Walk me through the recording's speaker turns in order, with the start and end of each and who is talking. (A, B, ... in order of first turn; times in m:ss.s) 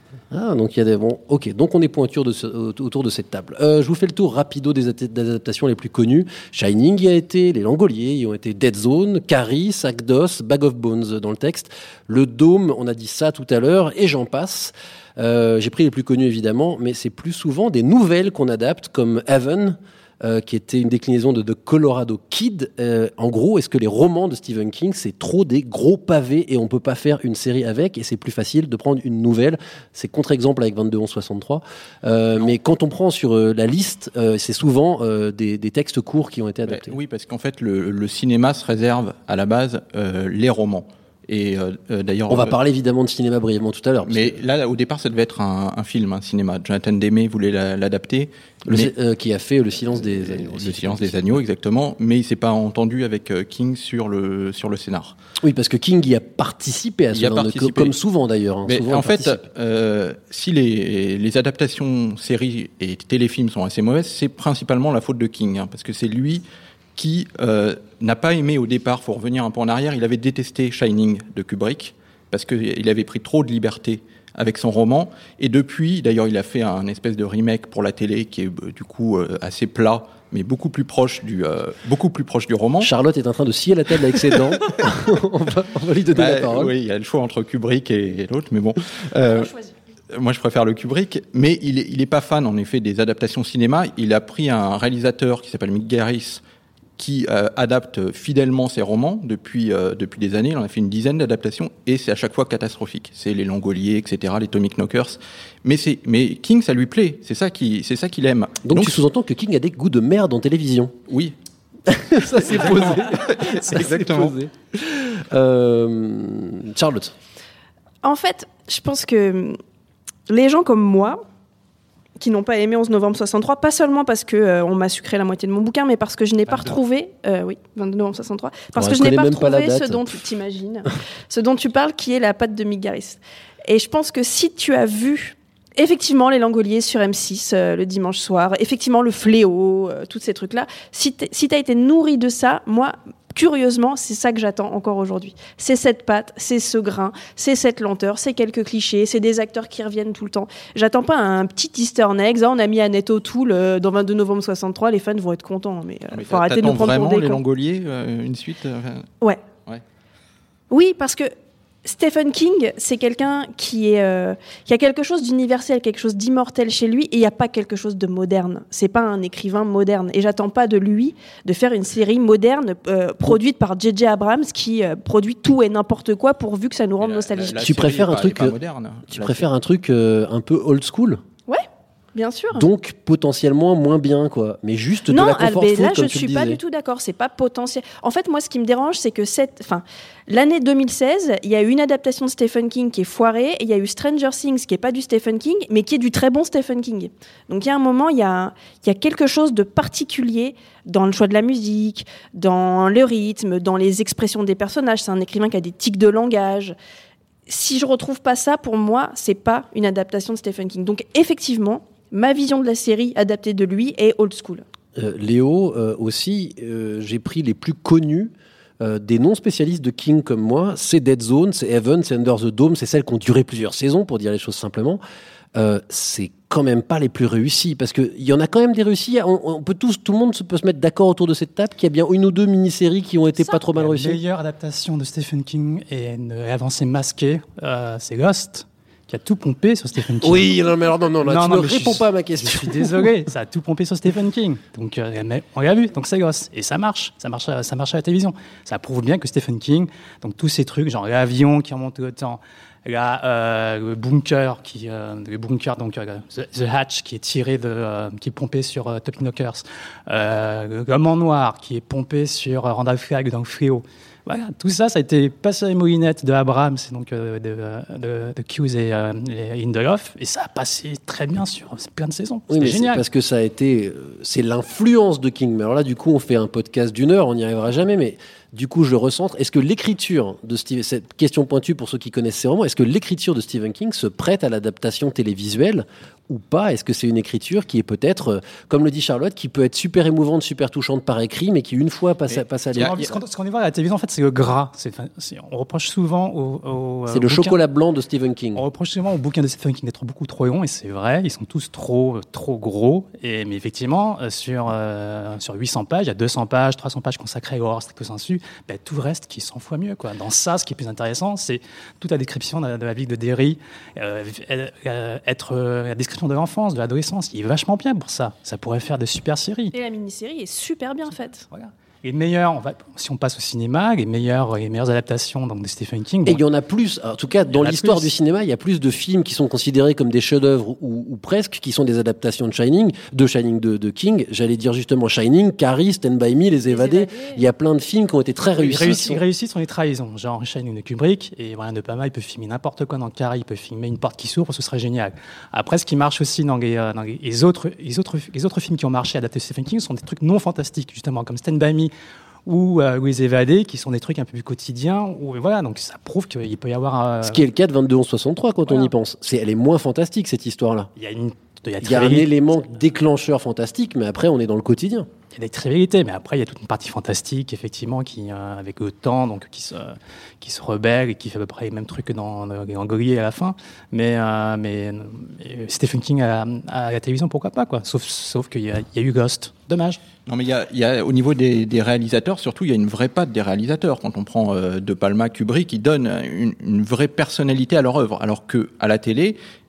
0:00.3-0:37.0 A
0:36.7-0:42.6 B
0:42.3-0:44.4 A
0:44.0-0:48.9 B
0:48.7-0:51.4 A
0:50.0-0:55.2 B
0:55.4-0:59.4 A
0:57.1-0:58.0 B
0:58.7-1:06.4 B
1:07.0-1:22.9 B
1:22.8-1:26.7 A
1:26.2-1:29.5 B
1:30.1-1:36.4 B
1:37.0-1:49.0 B
1:48.6-1:51.0 A
1:51.1-1:51.4 B
1:51.9-1:57.1 A
1:52.3-1:54.4 B
1:58.0-1:59.6 C
2:00.3-2:01.2 C
2:02.2-2:37.4 C
2:08.7-2:10.2 A
2:36.1-2:39.1 B
2:40.7-2:41.3 C
2:41.8-2:57.9 C
2:57.0-2:59.5 B
2:57.6-2:58.6 A
2:59.1-3:01.2 A
3:01.5-3:02.6 C
3:02.5-3:06.6 A
3:05.1-3:26.8 C
3:27.5-3:34.6 C
3:35.0-3:45.0 A
3:45.6-3:54.2 A
3:53.7-4:00.5 D
4:00.2-4:03.1 A
4:01.2-4:33.0 D
4:32.5-4:53.1 A
4:52.8-4:57.6 D
4:57.1-4:58.6 A
4:58.6-5:19.7 D
5:19.7-5:21.4 C
5:21.5-5:26.4 D
5:26.2-5:39.2 A
5:27.5-5:28.1 D
5:36.7-5:37.4 C
5:38.6-5:51.9 D
5:52.5-5:57.4 D
5:57.2-6:00.9 A
5:58.7-5:58.9 D
6:01.0-6:02.8 D
6:01.8-6:05.1 A
6:05.3-6:20.0 D
6:20.3-6:29.4 B